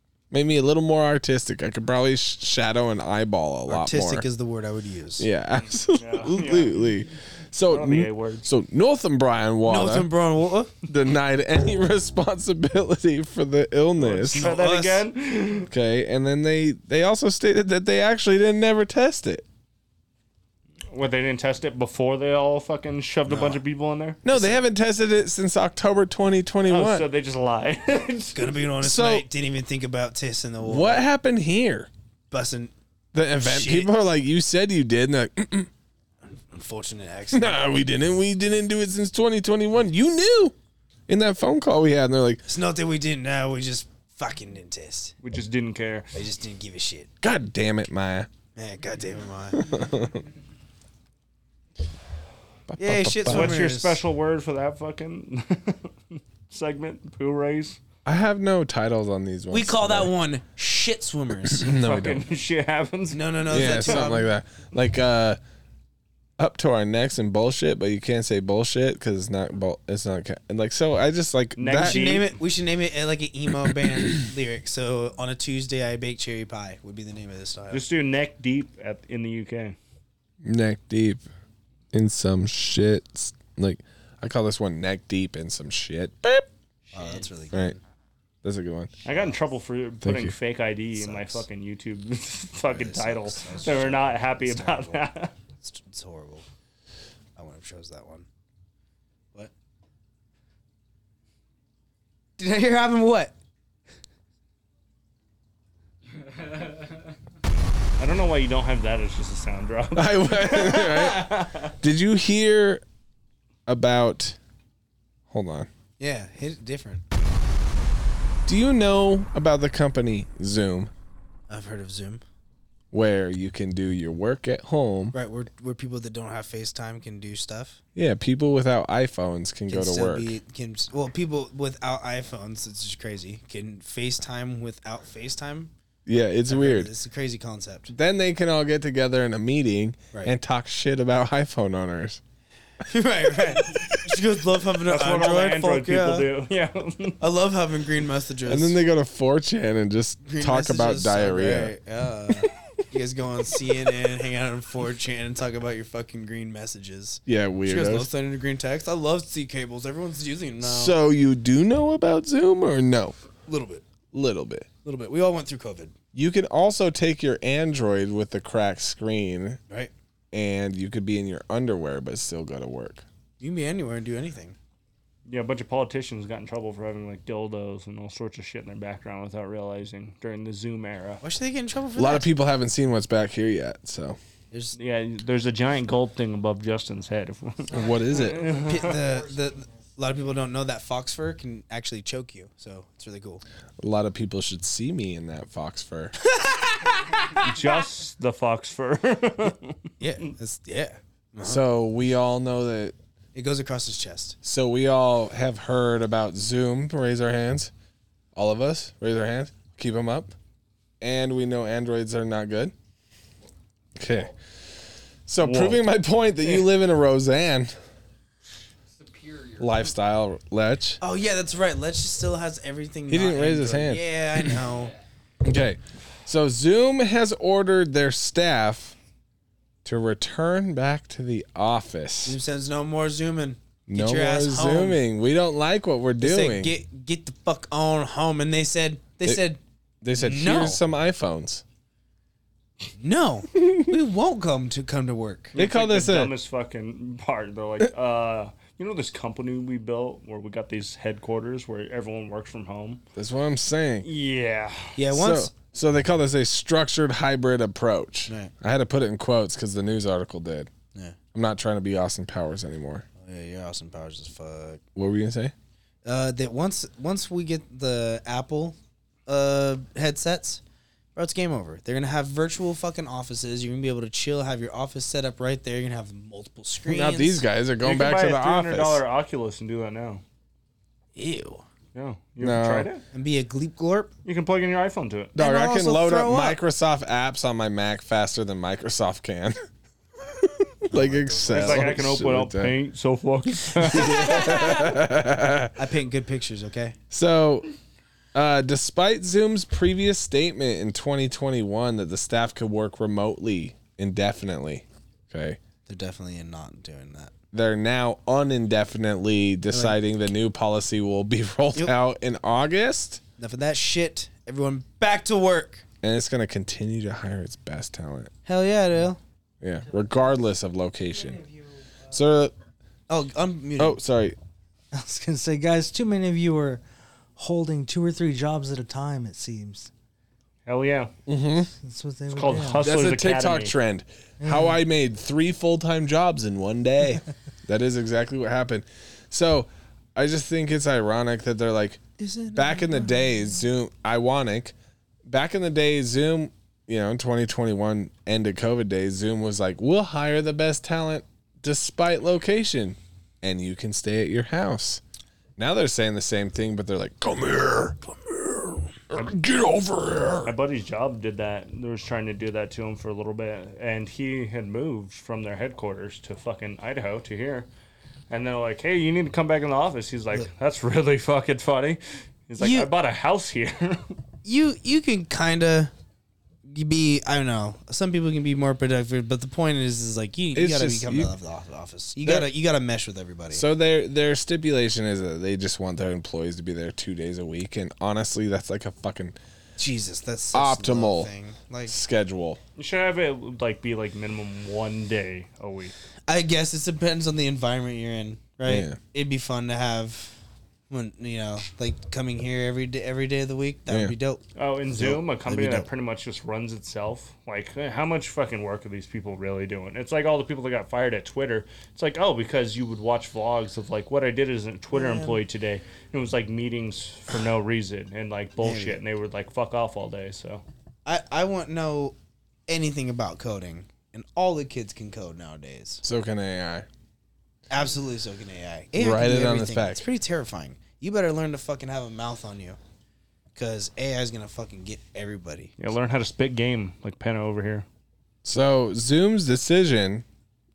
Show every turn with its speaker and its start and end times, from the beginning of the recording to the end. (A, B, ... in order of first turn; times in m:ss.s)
0:00.3-0:04.3 A
0:03.7-0:05.3 B
0:05.2-0:10.1 A
0:05.8-0:06.9 C
0:07.7-0:08.5 C
0:09.7-0:10.7 B
0:10.8-0:14.5 A
0:14.0-0:15.1 B
0:14.2-0:15.7 C
0:15.7-0:19.4 A
0:20.9-0:24.2 C
0:23.3-0:23.6 B
0:24.2-0:27.1 A
0:24.3-0:24.6 B
0:26.7-0:28.5 C
0:28.3-0:31.0 B
0:28.8-0:29.3 A
0:30.6-0:31.9 A
0:32.3-0:32.7 B
0:33.1-0:35.7 A
0:33.4-0:33.9 B
0:36.3-0:37.6 B
0:37.3-0:40.5 A
0:41.1-0:42.4 A
0:42.4-0:45.1 B
0:45.2-0:46.1 C
0:46.1-0:47.1 B
0:47.2-0:48.3 A
0:48.6-0:49.8 B
0:49.5-0:50.2 A
0:52.7-0:53.6 A
0:52.8-0:54.0 B
0:53.3-0:57.8 C
0:58.0-1:00.1 A
0:59.5-1:01.7 B
1:01.5-1:02.2 A
1:01.7-1:04.1 C
1:03.1-1:04.3 B
1:03.5-1:05.4 A
1:06.4-1:12.2 A
1:11.6-1:12.4 C
1:11.8-1:17.8 B
1:17.7-1:19.8 C
1:20.4-1:21.2 A
1:21.9-1:26.5 A
1:26.9-1:27.2 C
1:26.9-1:27.8 B
1:28.4-1:28.9 A
1:29.0-1:35.3 C
1:30.0-1:30.4 A
1:31.0-1:31.4 B
1:32.7-1:35.0 B
1:35.6-1:36.4 B
1:37.4-1:38.3 B
1:42.4-1:43.3 B
1:46.2-1:47.1 D
1:48.0-1:51.7 C
1:50.0-1:52.8 A
1:53.7-1:54.4 A
1:55.3-1:55.7 A
1:56.0-1:57.0 B
1:58.4-2:00.9 A
2:01.5-2:02.2 B
2:02.9-2:05.1 A
2:05.1-2:07.8 B
2:08.0-2:10.4 A
2:09.7-2:15.7 B
2:16.1-2:16.9 A
2:16.5-2:17.9 B
2:17.9-2:22.2 A
2:22.8-2:26.3 B
2:23.4-2:24.2 A
2:24.9-2:27.2 C
2:27.2-2:28.8 B
2:28.5-2:31.8 A
2:30.3-2:41.0 B
2:37.3-2:38.1 A
2:40.6-2:43.2 A
2:43.5-2:43.8 B
2:44.1-2:44.7 A
2:44.8-2:46.0 B
2:46.1-2:49.6 A
2:50.3-2:53.0 A
2:53.4-2:54.6 B
2:55.3-3:01.2 C
3:01.2-3:02.3 B
3:02.0-3:04.2 A
3:04.8-3:08.9 C
3:07.7-3:08.6 A
3:08.6-3:13.4 B
3:13.8-3:16.1 A
3:16.2-3:17.5 B
3:17.4-3:19.8 C
3:20.0-3:21.6 B
3:21.4-3:23.0 A
3:23.4-3:24.4 B
3:24.4-3:27.7 A
3:28.4-3:30.3 A
3:31.0-3:32.7 A
3:34.0-3:34.3 A
3:35.3-3:37.7 A
3:35.4-3:35.8 C
3:38.9-3:39.9 D
3:39.6-3:41.0 A
3:41.0-3:44.9 B
3:43.1-3:44.6 A
3:44.6-3:45.0 D
3:45.4-3:49.0 A
3:49.8-3:52.4 A
3:52.2-3:55.0 B
3:53.9-3:56.7 A
3:56.2-3:59.6 B
4:00.0-4:01.6 A
4:00.1-4:00.8 B
4:03.0-4:05.6 B
4:05.5-4:13.0 C
4:05.6-4:06.3 A
4:13.2-4:14.1 A
4:14.0-4:15.0 C
4:15.0-4:15.5 B
4:15.1-4:20.7 A
4:18.3-4:18.5 B
4:21.3-4:23.1 A
4:23.2-4:24.8 B
4:25.0-4:25.5 A
4:26.0-4:28.8 B
4:29.3-4:30.6 B
4:31.1-4:37.4 B
4:36.9-4:39.0 A
4:37.8-4:40.2 C
4:41.1-4:41.6 B
4:41.9-4:43.0 C
4:42.4-4:42.9 A
4:43.1-4:44.1 B
4:44.2-4:45.4 C
4:45.4-4:49.6 A
4:45.4-4:46.6 B
4:50.2-4:52.8 A
4:50.9-4:52.0 B
4:51.5-4:54.7 C
4:53.7-4:55.8 A
4:54.5-4:54.9 D
4:55.8-4:57.0 B
4:57.1-4:57.7 A
4:58.3-5:05.6 A
5:05.9-5:07.3 B
5:07.5-5:13.2 A
5:09.7-5:10.0 B
5:13.4-5:15.8 B
5:16.0-5:18.3 A
5:18.4-5:19.2 B
5:19.6-5:21.4 A
5:22.1-5:22.5 A
5:23.1-5:24.0 B
5:23.8-5:24.4 A
5:24.9-5:26.8 E
5:27.4-5:29.9 E
5:30.7-5:31.1 C
5:31.3-5:31.7 A
5:31.8-5:32.8 E
5:32.3-5:33.7 C
5:32.8-5:44.8 A
5:34.4-5:34.8 E
5:42.2-5:43.3 B
5:45.3-5:55.0 A
5:55.6-6:00.5 A
6:00.4-6:07.7 C
6:08.3-6:14.2 C
6:12.6-6:12.9 B
6:14.4-6:15.9 B
6:16.7-6:23.6 B
6:20.5-6:21.3 A
6:22.2-6:22.5 A
6:23.5-6:29.4 A
6:29.8-6:31.9 B
6:30.5-6:31.3 A
6:31.9-6:32.6 A
6:32.8-6:35.9 C
6:36.3-6:40.4 B
6:38.7-6:39.0 A
6:40.9-6:45.9 B
6:43.9-6:44.1 A
6:44.6-7:00.6 C
6:54.9-6:55.4 B
6:58.6-6:59.0 B
7:01.1-7:02.2 B
7:02.7-7:06.0 B
7:06.0-7:06.9 A
7:07.7-7:12.8 B
7:09.0-7:10.0 A
7:13.6-7:15.7 B
7:15.8-7:17.9 C
7:18.4-7:20.2 A